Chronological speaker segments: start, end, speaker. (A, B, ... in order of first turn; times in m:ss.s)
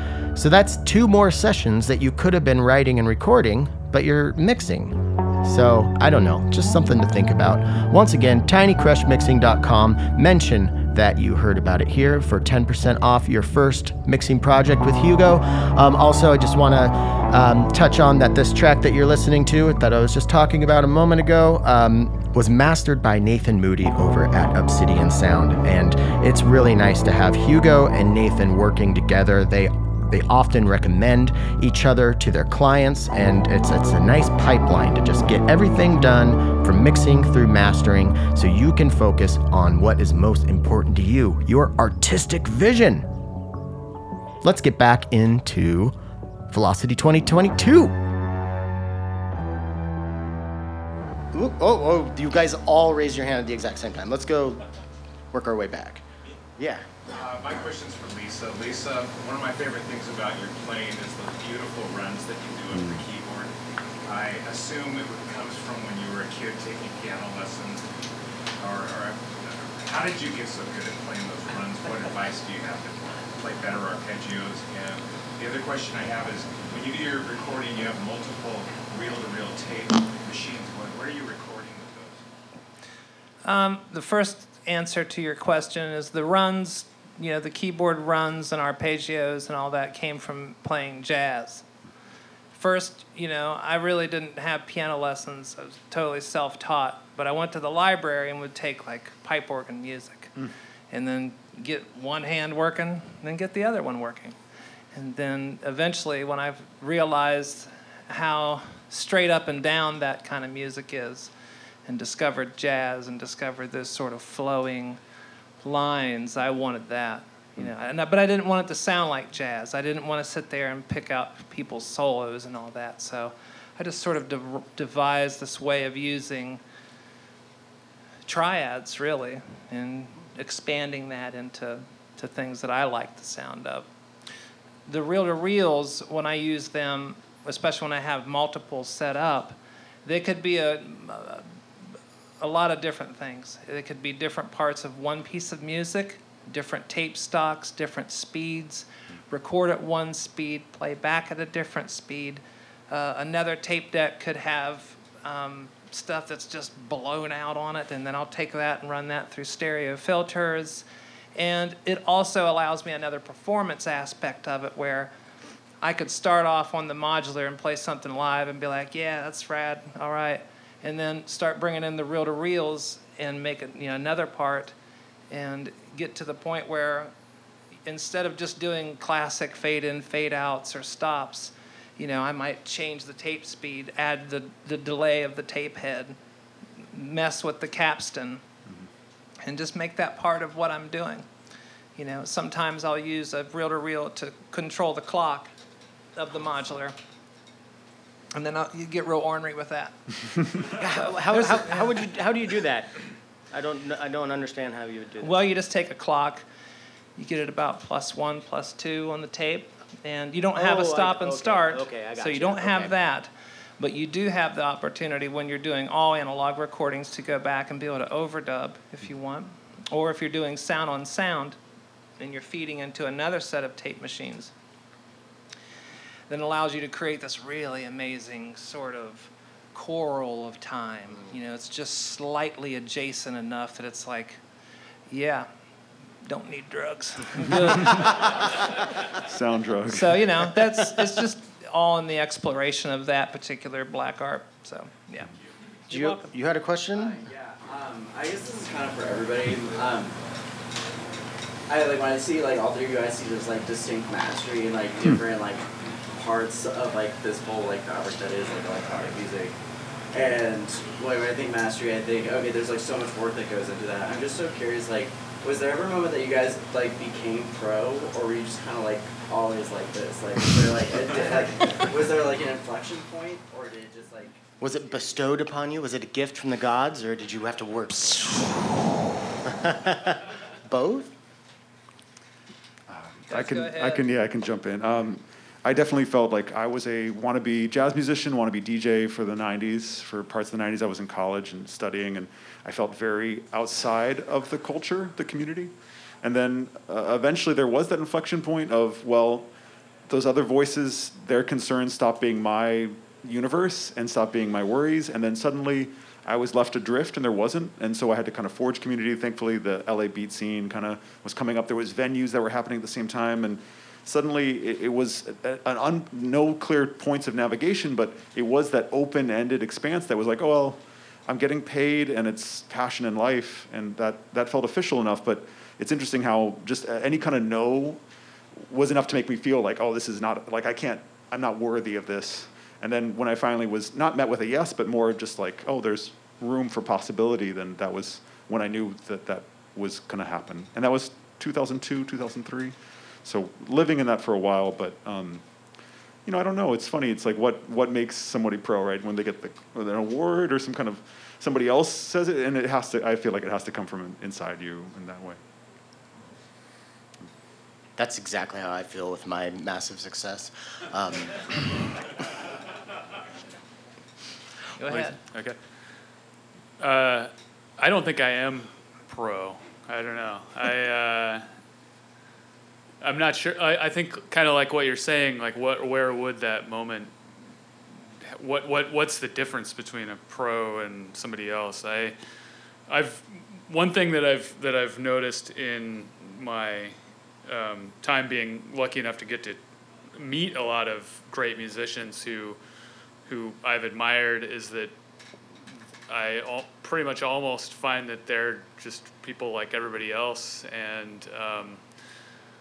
0:00.4-0:43.1 A
0:44.4-0:46.0 A
0:46.5-0:48.0 A
0:51.3-0:54.7 A
0:55.3-0:56.0 A
0:56.6-0:57.0 A
0:57.1-1:03.5 B
1:04.0-1:07.9 B
1:08.6-1:22.3 B
1:23.4-1:31.6 C
1:32.6-1:40.4 C
1:40.9-1:44.4 C
1:44.9-1:51.3 C
1:51.9-1:55.0 C
1:55.6-2:06.6 C
2:08.3-2:13.9 C
2:14.9-2:21.6 C
2:22.4-2:40.8 C
2:41.4-2:45.1 C
2:45.8-2:54.7 C
2:55.3-2:57.1 C
2:57.9-3:06.2 C
3:06.9-3:08.4 C
3:09.4-3:11.3 C
3:12.0-3:15.5 C
3:16.2-3:17.0 C
3:18.3-3:20.4 C
3:20.7-3:22.9 A
3:21.3-3:22.0 C
3:23.5-3:25.3 A
3:25.2-3:26.4 C
3:27.2-3:41.6 C
3:30.5-3:33.0 A
3:42.2-3:44.5 C
3:46.3-3:54.4 C
3:55.1-3:55.5 C
3:56.2-3:58.8 C
3:59.2-4:00.2 D
3:59.9-4:05.3 C
4:05.9-4:06.3 C
4:05.9-4:07.2 A
4:06.9-4:10.2 E
4:11.7-4:19.5 E
4:20.1-4:35.1 E
4:34.6-4:38.8 A
4:39.4-4:41.1 A
4:42.9-4:55.7 D
4:43.3-4:44.1 C
4:56.2-4:59.5 D
5:00.1-5:28.0 D
5:28.6-5:45.4 D
5:46.3-5:55.4 D
5:58.0-6:02.1 A
6:04.8-6:05.2 C
6:04.9-6:05.6 F
6:06.8-6:11.5 F
6:13.0-6:17.1 F
6:18.2-6:22.2 F
6:22.9-6:29.6 F
6:30.2-6:32.6 F
6:33.3-6:34.9 F
6:36.1-6:41.8 F